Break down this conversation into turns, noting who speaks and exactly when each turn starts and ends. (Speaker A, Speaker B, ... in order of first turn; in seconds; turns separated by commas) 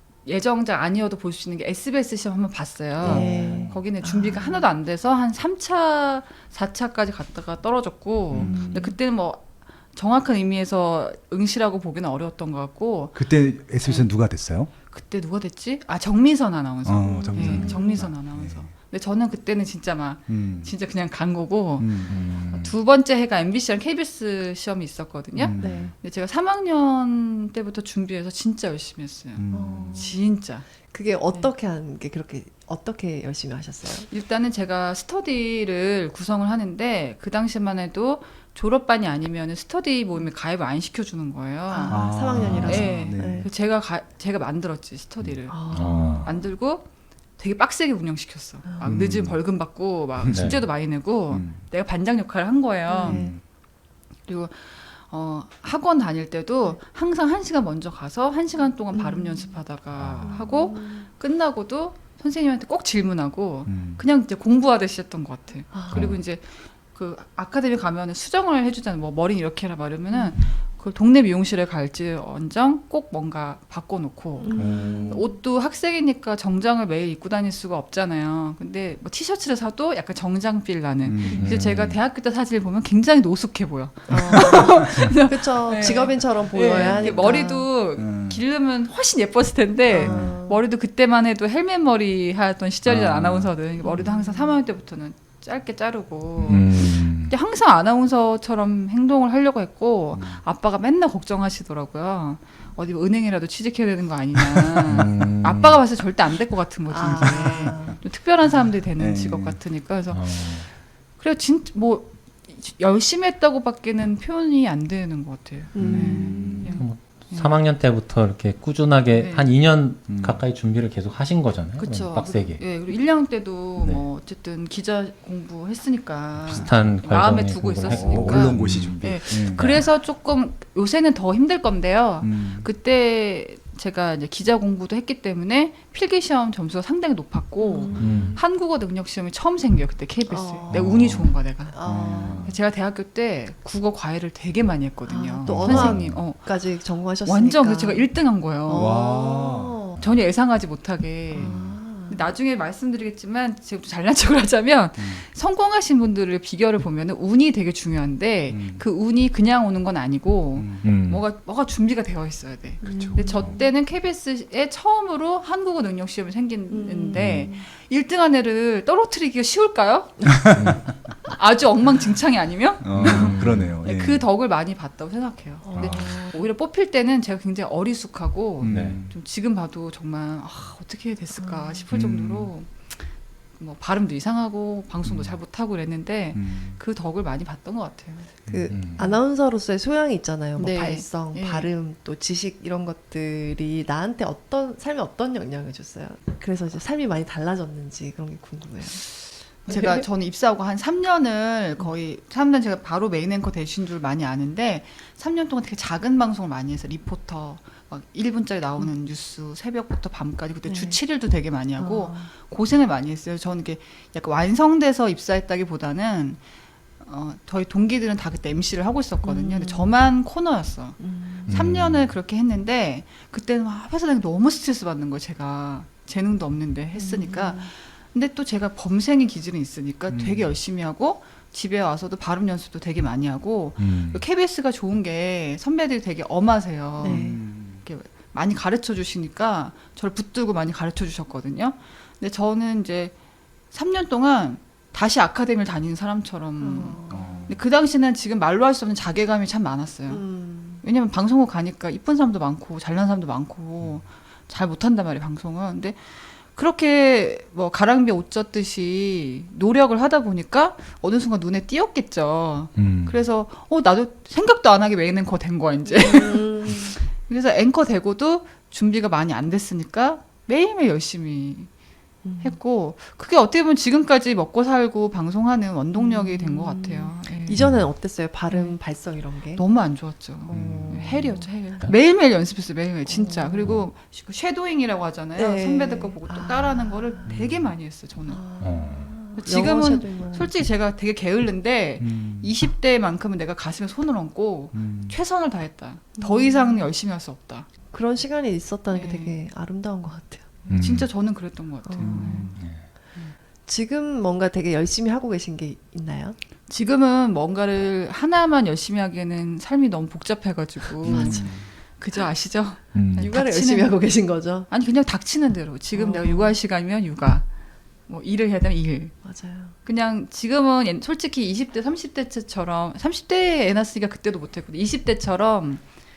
Speaker A: 0.2-13.2, Speaker B: 3.0-3.8, Speaker C: 3.0-4.7, Speaker B: 8.3-8.8, Speaker C: 8.4-8.9, Speaker B: 13.1-14.7, Speaker A: 13.8-14.1, Speaker A: 14.8-30.7, Speaker B: 16.9-18.7, Speaker C: 17.0-18.1, Speaker B: 20.3-20.8, Speaker B: 21.8-22.2, Speaker D: 22.1-22.8, Speaker B: 25.4-25.9, Speaker C: 25.6-25.9, Speaker B: 29.4-30.1, Speaker C: 29.5-30.2, Speaker C: 30.9-34.1, Speaker A: 34.1-42.0, Speaker C: 41.7-43.5, Speaker B: 41.9-43.5, Speaker D: 42.5-42.8, Speaker A: 42.6-53.3, Speaker C: 45.5-46.3, Speaker D: 45.7-46.3, Speaker C: 48.7-48.9, Speaker B: 48.8-49.5, Speaker B: 50.2-51.6, Speaker D: 50.3-50.6, Speaker C: 52.9-53.4, Speaker B: 53.0-53.4, Speaker A: 54.3-117.5, Speaker C: 58.6-59.6, Speaker C: 60.2-61.1, Speaker B: 63.7-64.0, Speaker C: 65.7-66.1, Speaker D: 65.9-66.2, Speaker C: 70.1-70.4, Speaker C: 74.4-75.3, Speaker B: 74.5-75.3, Speaker B: 81.0-81.5, Speaker D: 81.3-82.0, Speaker C: 84.1-87.7, Speaker B: 84.2-85.1, Speaker B: 86.7-87.1, Speaker B: 88.0-88.4, Speaker C: 89.9-90.6, Speaker B: 90.0-90.4, Speaker B: 92.8-93.5, Speaker C: 93.8-94.6, Speaker D: 96.5-97.3, Speaker B: 100.1-100.4, Speaker D: 104.9-105.8, Speaker C: 106.9-108.0, Speaker B: 107.1-107.9, Speaker B: 108.9-109.7, Speaker D: 110.1-110.7, Speaker C: 115.7-116.8, Speaker B: 115.8-116.8, Speaker D: 116.7-122.6, Speaker A: 119.1-119.5, Speaker B: 120.1-120.4, Speaker A: 121.8-146.5, Speaker D: 123.8-124.0, Speaker D: 126.4-129.9, Speaker B: 127.8-129.6, Speaker B: 132.2-132.7, Speaker C: 137.6-138.4, Speaker D: 138.0-138.4, Speaker C: 140.3-141.0, Speaker B: 140.7-142.6, Speaker D: 141.0-141.3, Speaker C: 141.7-142.6, Speaker C: 145.1-148.1, Speaker D: 145.5-146.2, Speaker B: 145.5-146.1, Speaker A: 147.2-148.9, Speaker C: 148.7-150.0, Speaker B: 148.7-149.8, Speaker A: 150.0-170.2, Speaker C: 151.3-152.3, Speaker B: 151.4-151.7, Speaker B: 155.0-155.2, Speaker B: 158.5-158.8, Speaker B: 160.6-160.9, Speaker D: 160.8-161.2, Speaker B: 162.8-163.3, Speaker C: 162.8-163.7, Speaker C: 166.7-167.7, Speaker D: 167.2-167.4, Speaker B: 170.2-170.8, Speaker D: 170.6-171.0, Speaker A: 171.3-188.3, Speaker B: 172.8-174.3, Speaker D: 172.9-173.8, Speaker C: 175.6-176.4, Speaker B: 175.8-176.1, Speaker B: 178.6-179.2, Speaker D: 178.7-179.0, Speaker C: 181.3-181.8, Speaker B: 181.9-182.5, Speaker B: 185.1-185.3, Speaker B: 186.3-186.8, Speaker B: 188.5-188.8, Speaker C: 188.5-199.0, Speaker D: 188.7-189.2, Speaker A: 190.6-191.7, Speaker A: 199.0-216.4, Speaker C: 199.6-200.1, Speaker C: 210.7-211.0, Speaker C: 211.8-212.3, Speaker A: 217.0-237.3, Speaker C: 219.2-219.9, Speaker C: 221.0-221.6, Speaker D: 221.5-222.1, Speaker C: 226.9-227.7, Speaker B: 230.1-230.6, Speaker D: 233.8-234.2, Speaker C: 237.0-237.4, Speaker B: 237.0-237.8, Speaker A: 237.8-243.2, Speaker A: 243.7-250.2, Speaker C: 246.6-247.6, Speaker B: 247.1-247.6, Speaker C: 250.1-250.8, Speaker A: 250.8-271.7, Speaker D: 262.8-263.2, Speaker C: 265.9-267.0, Speaker C: 272.2-272.6, Speaker A: 272.4-277.6, Speaker C: 275.9-279.6, Speaker D: 277.5-277.9, Speaker A: 278.5-278.8, Speaker A: 279.5-288.4, Speaker C: 280.4-281.9, Speaker B: 280.5-281.0, Speaker C: 283.1-283.9, Speaker C: 285.4-287.3, Speaker B: 287.2-287.7, Speaker C: 288.3-290.5, Speaker D: 288.6-289.1, Speaker A: 289.4-297.7, Speaker B: 292.0-292.5, Speaker B: 294.7-295.2, Speaker C: 296.2-296.9, Speaker C: 297.9-300.6, Speaker A: 298.9-299.4, Speaker A: 300.6-302.6, Speaker D: 300.7-301.1, Speaker C: 301.9-302.6, Speaker B: 302.0-302.5, Speaker D: 302.5-302.9, Speaker C: 303.7-306.4, Speaker A: 306.7-314.0, Speaker B: 311.0-311.7, Speaker C: 311.1-311.6, Speaker D: 312.9-313.3, Speaker C: 313.1-314.7, Speaker A: 314.7-317.5, Speaker C: 315.9-316.6, Speaker A: 318.1-319.2, Speaker C: 319.2-319.7, Speaker A: 319.8-325.9